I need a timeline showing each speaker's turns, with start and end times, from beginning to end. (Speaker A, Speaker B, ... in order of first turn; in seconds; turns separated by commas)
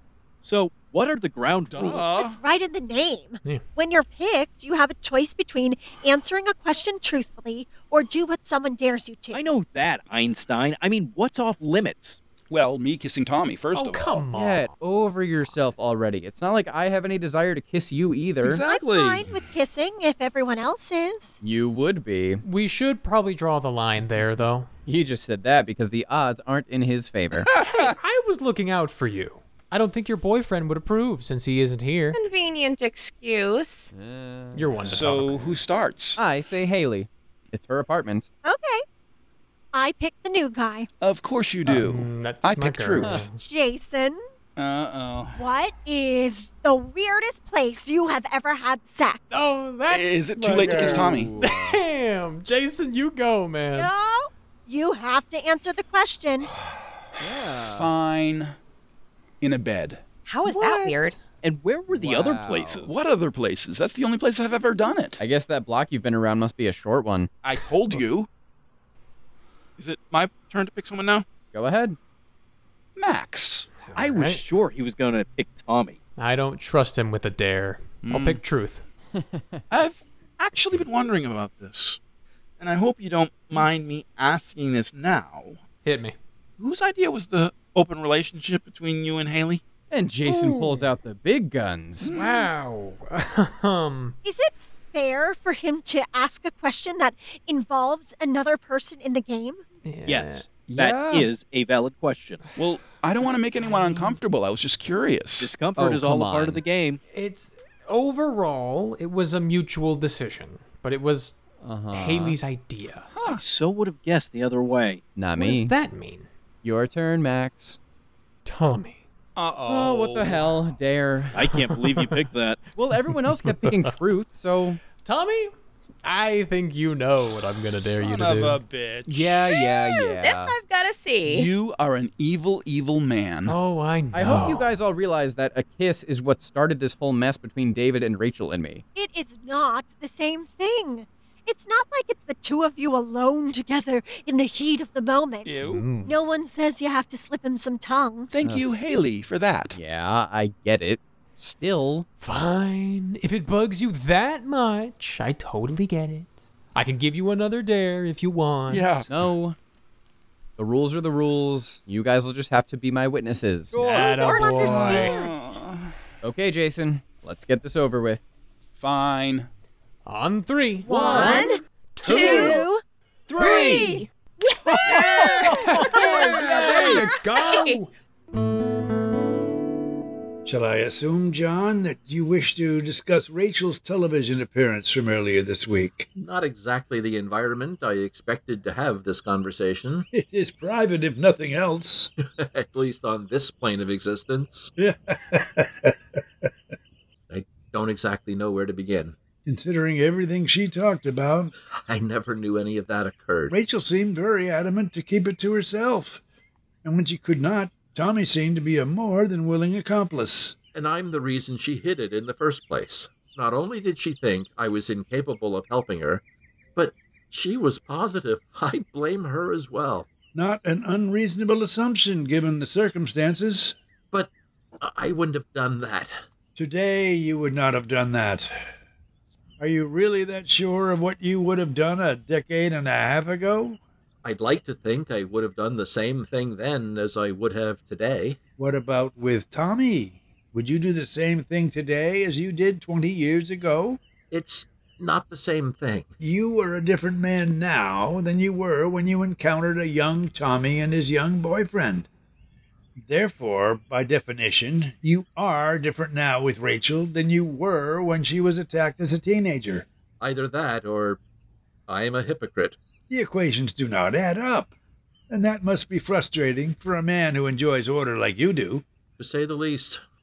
Speaker A: 0.4-2.1, Speaker B: 1.7-2.4, Speaker C: 1.9-9.5, Speaker A: 9.3-12.2, Speaker B: 12.5-14.3, Speaker D: 13.7-14.7, Speaker E: 14.3-18.6, Speaker B: 18.4-19.3, Speaker C: 18.6-21.4, Speaker E: 21.4-22.4, Speaker D: 22.4-24.7, Speaker E: 24.9-27.5, Speaker B: 27.6-27.9, Speaker D: 27.7-32.2, Speaker F: 32.1-33.9, Speaker E: 33.9-35.4, Speaker D: 34.5-35.5, Speaker B: 34.9-36.2, Speaker E: 36.2-38.3, Speaker C: 38.5-38.8, Speaker C: 39.7-40.9, Speaker B: 41.0-43.3, Speaker D: 41.7-43.4, Speaker E: 43.0-43.2, Speaker C: 43.3-44.2, Speaker B: 44.6-45.5, Speaker C: 45.4-49.5, Speaker D: 49.3-53.9, Speaker B: 49.9-51.4, Speaker E: 50.5-51.8, Speaker C: 53.7-56.5, Speaker E: 57.2-57.9, Speaker B: 57.6-58.5, Speaker B: 59.4-60.0, Speaker F: 60.2-61.2, Speaker D: 60.5-61.1, Speaker A: 61.4-63.0, Speaker E: 61.9-62.9, Speaker B: 62.9-65.2, Speaker E: 65.2-67.3, Speaker B: 67.4-68.3, Speaker G: 69.8-71.2, Speaker E: 71.5-72.0, Speaker B: 73.0-73.7, Speaker D: 73.8-74.4, Speaker A: 74.0-76.0, Speaker D: 76.2-78.8, Speaker B: 78.0-78.4, Speaker G: 79.7-82.0, Speaker G: 82.6-85.6, Speaker D: 85.8-86.2, Speaker G: 86.6-89.6, Speaker E: 89.9-92.1, Speaker D: 90.2-90.9, Speaker G: 92.0-92.5, Speaker D: 92.1-94.2, Speaker C: 94.2-99.6, Speaker D: 99.8-101.0, Speaker A: 100.1-102.4, Speaker E: 100.8-101.3, Speaker B: 102.6-105.5, Speaker D: 103.6-104.2, Speaker A: 105.4-107.0, Speaker E: 105.8-106.6, Speaker D: 107.1-111.4, Speaker E: 111.6-112.4, Speaker D: 111.9-113.1, Speaker B: 113.2-113.4, Speaker A: 113.2-115.0, Speaker E: 115.2-115.7, Speaker D: 115.4-116.3, Speaker E: 116.6-117.8, Speaker D: 118.5-119.0, Speaker B: 119.4-120.5, Speaker E: 119.7-121.4, Speaker A: 121.3-122.6, Speaker D: 121.5-122.2, Speaker E: 122.8-124.8, Speaker D: 123.1-123.9, Speaker D: 125.0-128.6, Speaker B: 127.8-129.8, Speaker E: 129.1-130.6, Speaker F: 129.9-131.5, Speaker B: 131.2-133.6, Speaker D: 133.5-134.7, Speaker E: 134.1-138.8, Speaker C: 138.9-148.3, Speaker B: 145.4-145.9, Speaker D: 145.6-146.2, Speaker B: 148.3-149.8, Speaker E: 149.7-152.1, Speaker D: 152.2-159.0, Speaker B: 158.7-159.1, Speaker E: 159.1-159.6, Speaker E: 160.6-163.8, Speaker A: 163.7-164.6, Speaker D: 163.8-165.2, Speaker F: 164.0-165.3, Speaker C: 164.3-164.8, Speaker B: 164.5-165.9, Speaker E: 166.2-168.2, Speaker B: 168.8-169.5, Speaker D: 170.1-172.7, Speaker C: 170.8-171.6, Speaker F: 171.2-172.5, Speaker C: 172.1-172.8, Speaker B: 173.3-174.0, Speaker C: 173.4-174.1, Speaker F: 173.4-177.8, Speaker B: 174.7-176.1, Speaker D: 174.9-177.9, Speaker H: 180.4-186.1, Speaker I: 186.2-190.1, Speaker H: 190.2-192.1, Speaker I: 192.2-194.7, Speaker H: 194.8-196.5, Speaker I: 197.3-199.2, Speaker H: 199.5-201.5, Speaker I: 201.7-203.6, Speaker H: 203.5-206.2, Speaker H: 206.8-210.6, Speaker I: 210.7-216.2, Speaker I: 216.8-220.1, Speaker H: 220.3-223.8, Speaker I: 224.1-226.2, Speaker H: 226.6-228.5, Speaker H: 229.6-233.8, Speaker I: 234.2-238.4, Speaker H: 238.6-244.0, Speaker I: 244.3-246.1, Speaker H: 246.2-252.1, Speaker H: 253.1-259.9, Speaker I: 260.2-261.2, Speaker I: 261.9-262.8, Speaker H: 263.1-264.7, Speaker H: 265.3-268.8, Speaker I: 269.2-270.0